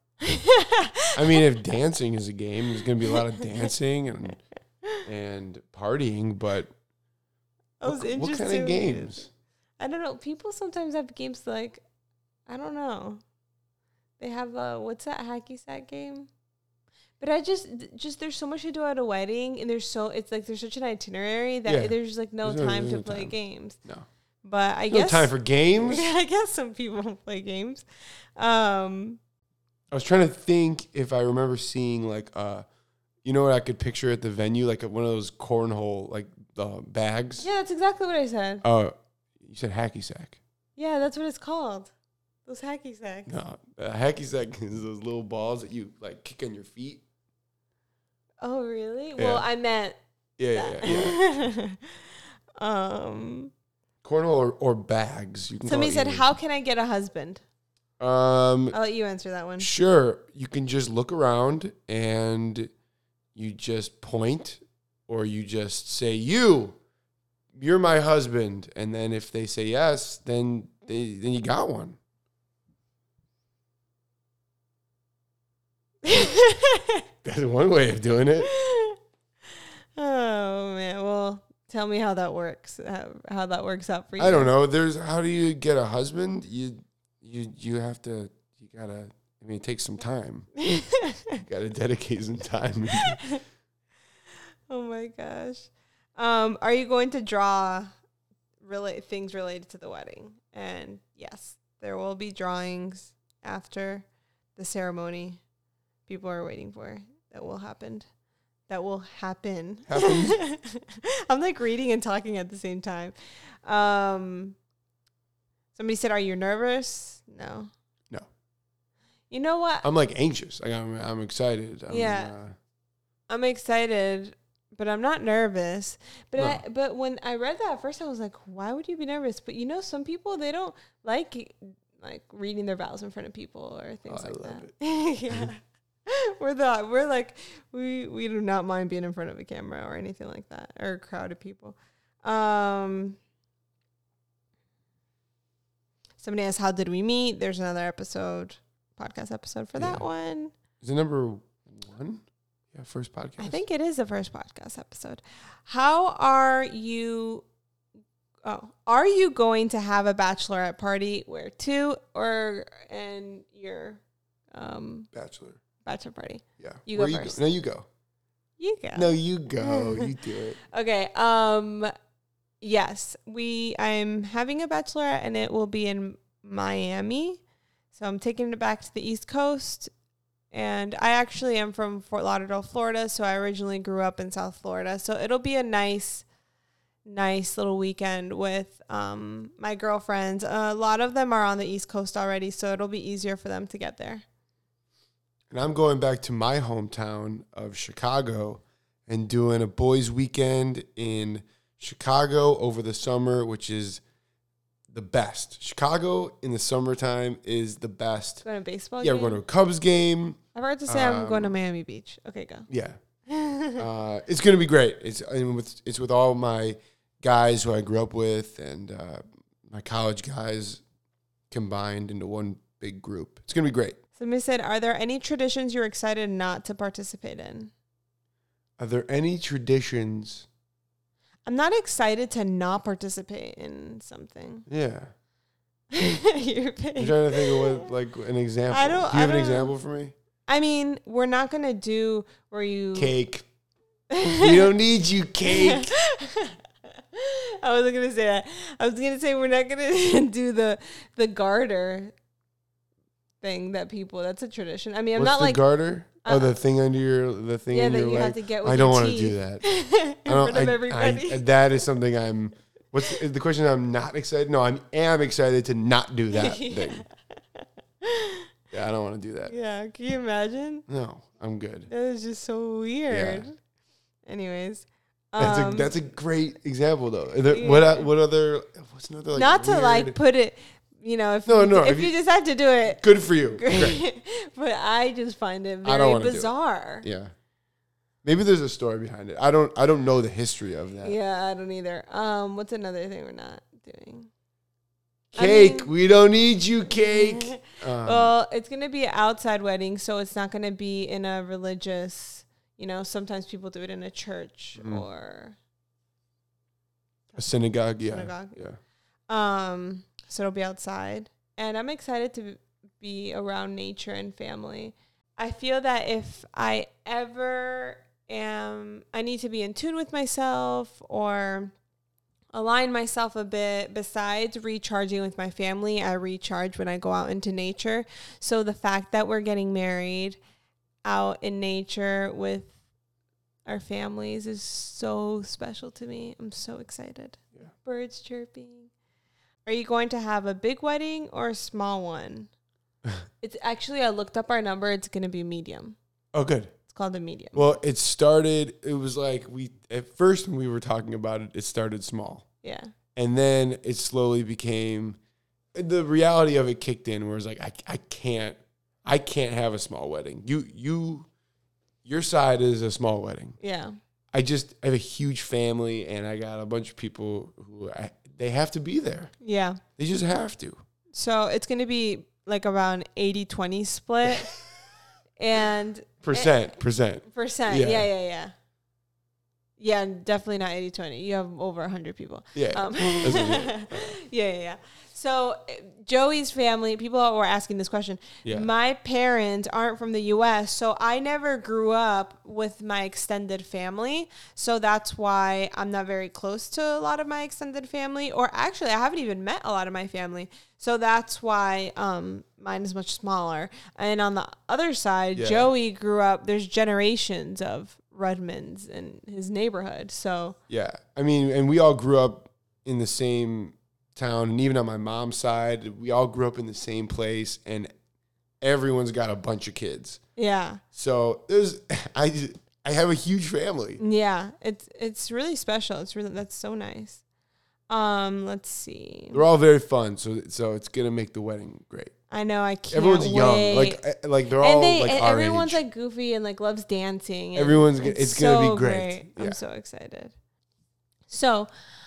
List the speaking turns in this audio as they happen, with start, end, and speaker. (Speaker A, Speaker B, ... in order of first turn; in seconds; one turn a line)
Speaker A: 0.2-1.5
Speaker B: 1.1-4.4
Speaker B: 5.0-6.7
Speaker A: 7.8-9.2
Speaker B: 7.8-9.3
Speaker A: 9.8-11.8
Speaker A: 12.5-13.2
Speaker A: 14.2-16.3
Speaker A: 17.2-23.8
Speaker B: 21.6-24.1
Speaker A: 24.4-27.8
Speaker B: 24.9-26.1
Speaker A: 28.4-29.2
Speaker B: 29.9-32.6
Speaker B: 33.2-37.5
Speaker A: 37.4-38.6
Speaker B: 38.6-40.4
Speaker A: 40.8-41.9
Speaker A: 42.5-43.3
Speaker B: 43.3-47.0
Speaker A: 48.4-50.0
Speaker B: 49.2-49.4
Speaker B: 50.4-51.2
Speaker A: 50.5-53.5
Speaker B: 54.0-56.2
Speaker A: 55.6-57.4
Speaker B: 58.0-58.8
Speaker A: 58.7-59.7
Speaker B: 59.6-62.7
Speaker B: 63.3-66.8
Speaker B: 67.5-72.0
Speaker A: 76.0-77.0
Speaker B: 77.2-78.5
Speaker A: 78.4-79.0
Speaker A: 80.0-84.5
Speaker B: 84.2-90.5
Speaker A: 90.6-91.4
Speaker B: 91.4-93.2
Speaker A: 92.9-93.4
Speaker A: 94.7-97.9
Speaker A: 98.6-105.4
Speaker A: 106.1-108.1
Speaker A: 108.7-114.5
Speaker B: 109.9-110.4
Speaker A: 115.7-117.7
Speaker A: 119.3-119.9
Speaker B: 119.8-122.5
Speaker A: 121.9-122.3
Speaker A: 123.3-143.2
Speaker B: 134.1-134.7
Speaker A: 146.2-150.5
Speaker B: 149.8-150.0
Speaker B: 150.8-153.6
Speaker A: 153.4-157.4
Speaker A: 158.4-164.0
Speaker A: 164.5-165.1
Speaker B: 165.1-165.6
Speaker A: 165.8-167.4
Speaker B: 166.6-167.8
Speaker A: 168.6-171.9
Speaker B: 168.9-170.6
Speaker A: 172.6-177.4
Speaker A: 177.9-179.9
Speaker A: 180.5-186.2
Speaker A: 187.1-194.2
Speaker B: 195.5-204.0
Speaker B: 204.9-208.4
Speaker A: 208.4-209.4
Speaker B: 209.0-211.5
Speaker A: 210.5-212.7
Speaker B: 212.7-213.0
Speaker A: 213.3-213.8
Speaker B: 213.8-220.8
Speaker B: 221.5-224.0
Speaker A: 224.2-227.7
Speaker B: 228.8-230.5
Speaker A: 231.4-234.7
Speaker B: 234.7-235.1
Speaker A: 235.9-237.9
Speaker B: 237.0-240.1
Speaker A: 238.7-239.7
Speaker A: 240.5-243.1
Speaker B: 242.9-243.4
Speaker A: 244.1-244.7
Speaker B: 244.2-245.9
Speaker A: 245.5-252.1
Speaker A: 253.4-255.6
Speaker B: 255.2-259.6
Speaker A: 256.2-256.5
Speaker A: 257.7-261.5
Speaker B: 260.2-267.0
Speaker A: 266.3-268.5
Speaker B: 268.7-269.5
Speaker A: 269.5-270.8
Speaker B: 270.9-271.9
Speaker A: 271.9-273.6
Speaker B: 273.1-273.4
Speaker A: 274.3-275.9
Speaker B: 275.4-280.2
Speaker A: 277.5-278.1
Speaker A: 279.3-287.1
Speaker B: 281.4-282.1
Speaker B: 282.9-284.0
Speaker B: 285.8-287.3
Speaker B: 288.2-291.1
Speaker A: 291.0-294.3
Speaker B: 295.3-298.3
Speaker A: 295.3-295.9
Speaker A: 296.9-305.6
Speaker B: 304.8-305.0
Speaker B: 307.4-308.8
Speaker A: 308.0-308.6
Speaker A: 309.3-321.7
Speaker A: 322.5-330.4
Speaker A: 331.0-332.7
Speaker A: 333.6-338.9
Speaker A: 339.6-342.5
Speaker A: 343.4-345.9
Speaker B: 346.3-346.7
Speaker A: 346.9-347.7
Speaker B: 347.5-352.4
Speaker A: 352.6-352.9
Speaker B: 353.1-355.2
Speaker B: 355.7-361.3
Speaker B: 362.0-363.6
Speaker A: 363.6-363.9
Speaker B: 364.3-369.3
Speaker A: 369.4-369.8
Speaker B: 370.0-370.8
Speaker A: 371.1-374.6
Speaker A: 375.4-376.6
Speaker B: 376.2-378.1
Speaker A: 377.3-378.5
Speaker A: 379.8-410.6
Speaker B: 382.5-384.1
Speaker B: 388.4-388.7
Speaker B: 405.3-405.7
Speaker B: 410.7-417.9
Speaker B: 418.6-420.2
Speaker A: 420.4-420.8
Speaker B: 420.9-424.0
Speaker A: 424.0-427.2
Speaker A: 427.9-429.4
Speaker B: 429.3-432.1
Speaker A: 432.3-434.0
Speaker B: 432.9-435.8
Speaker A: 434.6-440.3
Speaker B: 437.6-439.6
Speaker A: 441.3-441.7